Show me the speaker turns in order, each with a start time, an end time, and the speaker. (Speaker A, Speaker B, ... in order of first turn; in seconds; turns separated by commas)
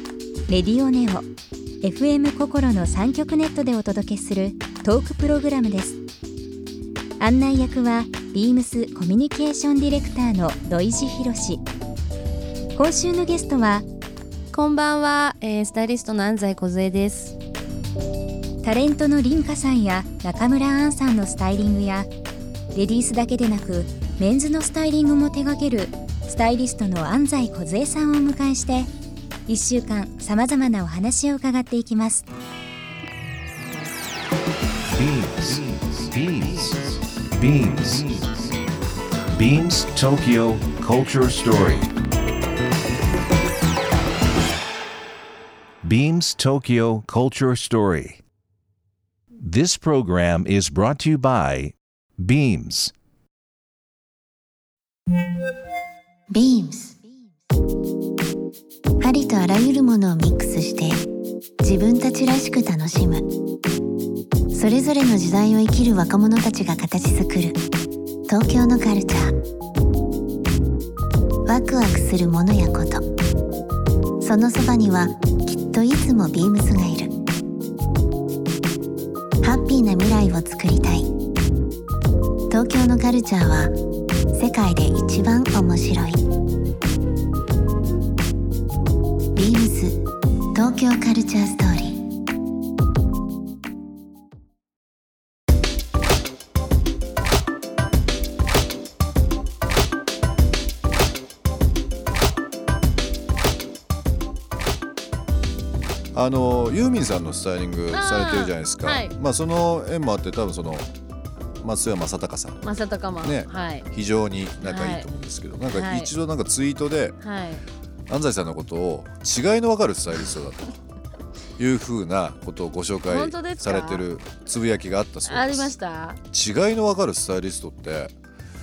Speaker A: 0.5-1.3, Speaker A: 1.8-6.0, Speaker A: 7.2-11.6, Speaker A: 12.8-13.9, Speaker B: 14.5-17.4, Speaker A: 18.6-22.1, Speaker A: 22.7-28.9, Speaker A: 29.5-32.2, Speaker C: 34.9-38.5, Speaker C: 39.3-41.9, Speaker C: 45.8-48.2, Speaker C: 49.4-52.9, Speaker D: 56.3-57.0, Speaker D: 59.0-61.1, Speaker D: 61.6-63.3, Speaker D: 64.5-67.6, Speaker D: 68.3-69.4, Speaker D: 71.4-73.0, Speaker D: 74.2-77.1, Speaker D: 79.4-81.1, Speaker D: 82.5-83.8, Speaker D: 84.3-86.2, Speaker D: 89.3-90.0, Speaker D: 90.5-92.0, Speaker E: 106.1-110.9, Speaker B: 107.9-109.1, Speaker E: 111.6-112.7, Speaker B: 112.6-113.8, Speaker E: 113.2-117.2, Speaker B: 114.6-115.1, Speaker B: 115.7-116.1, Speaker B: 117.2-117.6, Speaker E: 118.1-120.7, Speaker E: 121.6-125.8, Speaker B: 123.0-124.0, Speaker B: 125.2-126.2, Speaker E: 126.3-128.1